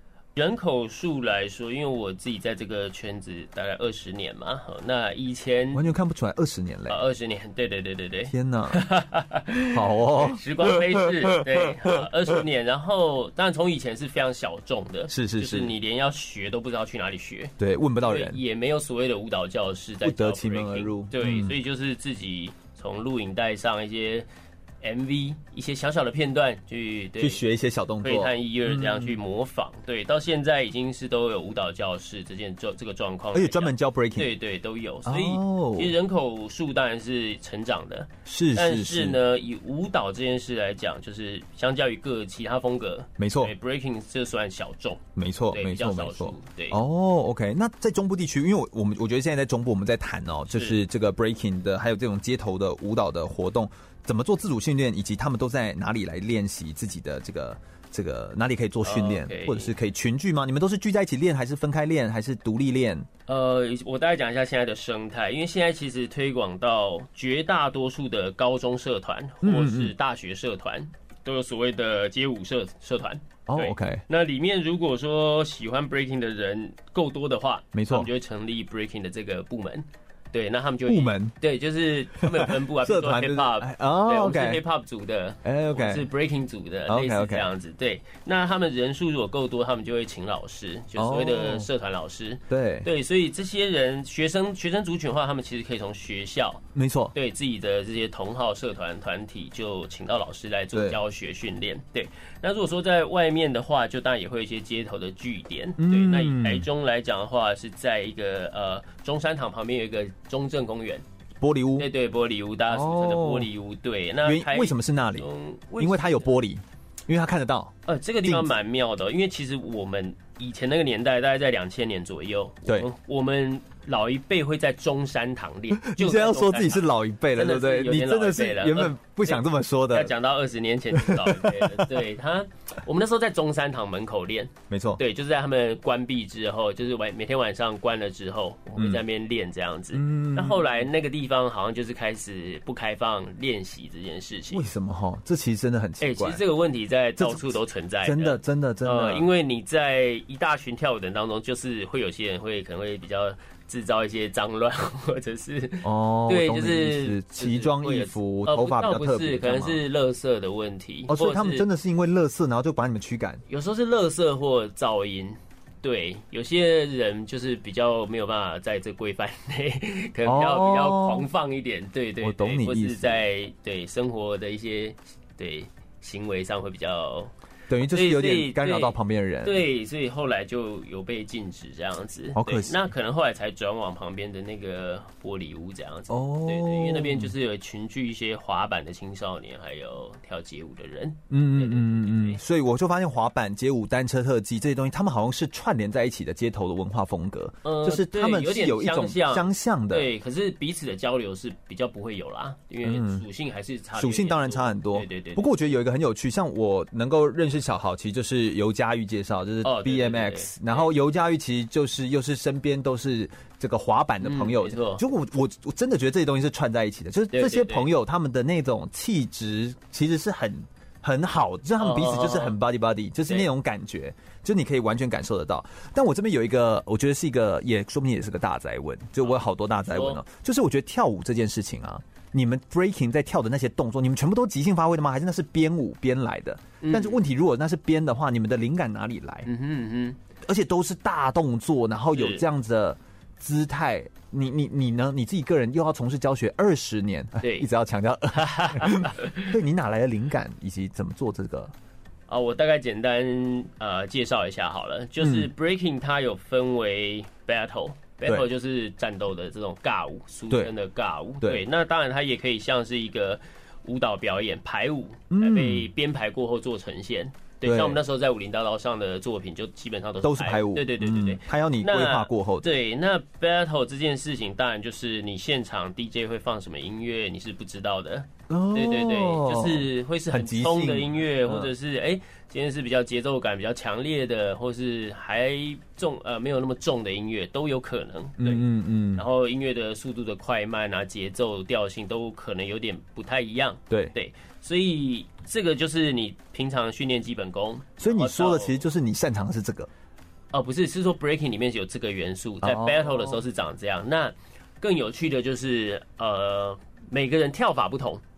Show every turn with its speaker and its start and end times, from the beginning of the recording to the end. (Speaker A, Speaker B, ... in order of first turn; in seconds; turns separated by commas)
Speaker A: 0.3-5.8, Speaker B: 5.7-7.0, Speaker A: 6.9-24.3, Speaker B: 8.3-8.8, Speaker B: 9.7-12.0, Speaker B: 15.1-15.7, Speaker B: 17.6-18.4, Speaker B: 20.0-21.6, Speaker A: 24.8-27.4, Speaker B: 27.2-29.2, Speaker A: 28.0-46.8, Speaker B: 33.3-34.3, Speaker B: 35.0-36.0, Speaker B: 38.2-39.2, Speaker B: 43.2-43.5, Speaker B: 45.1-63.1, Speaker A: 50.5-50.8, Speaker A: 58.8-59.7, Speaker A: 63.3-111.0, Speaker B: 69.4-69.9, Speaker B: 73.5-74.0, Speaker B: 77.7-78.1, Speaker B: 80.8-81.3, Speaker B: 82.2-84.6, Speaker B: 85.4-86.1, Speaker B: 86.9-87.5, Speaker B: 91.0-91.7, Speaker B: 92.5-92.9, Speaker B: 96.7-97.1, Speaker B: 100.7-101.0, Speaker B: 105.8-106.7, Speaker B: 111.4-111.9, Speaker A: 111.8-116.3, Speaker B: 112.7-113.5, Speaker B: 114.2-115.3, Speaker B: 115.8-118.5, Speaker A: 117.8-144.6, Speaker B: 125.7-130.1, Speaker B: 130.9-131.9, Speaker B: 134.7-135.0, Speaker B: 138.8-139.0, Speaker B: 139.9-140.8, Speaker B: 144.5-146.4, Speaker A: 146.0-161.7, Speaker B: 147.2-149.3, Speaker B: 155.8-159.8, Speaker B: 161.1-163.4, Speaker A: 163.5-177.3, Speaker B: 170.2-171.3, Speaker B: 172.2-173.2, Speaker B: 177.7-179.6, Speaker A: 177.8-192.4, Speaker B: 182.3-182.8, Speaker B: 186.1-187.3, Speaker B: 191.3-200.1, Speaker A: 197.6-205.5, Speaker B: 202.8-203.2, Speaker B: 203.9-239.5, Speaker A: 209.6-210.9, Speaker A: 214.2-215.0, Speaker A: 217.3-217.9, Speaker A: 221.8-222.6, Speaker A: 229.2-230.2, Speaker A: 236.8-237.2, Speaker A: 239.4-240.2, Speaker B: 240.4-251.7, Speaker A: 242.1-242.4, Speaker A: 247.4-247.7, Speaker A: 248.3-249.6, Speaker A: 252.3-298.8, Speaker B: 255.2-255.5, Speaker B: 265.3-265.9, Speaker B: 267.6-268.0, Speaker B: 270.2-272.7, Speaker B: 278.5-281.7, Speaker B: 288.4-289.2, Speaker B: 293.9-294.1, Speaker B: 298.0-299.9, Speaker A: 300.5-308.2, Speaker B: 302.6-303.4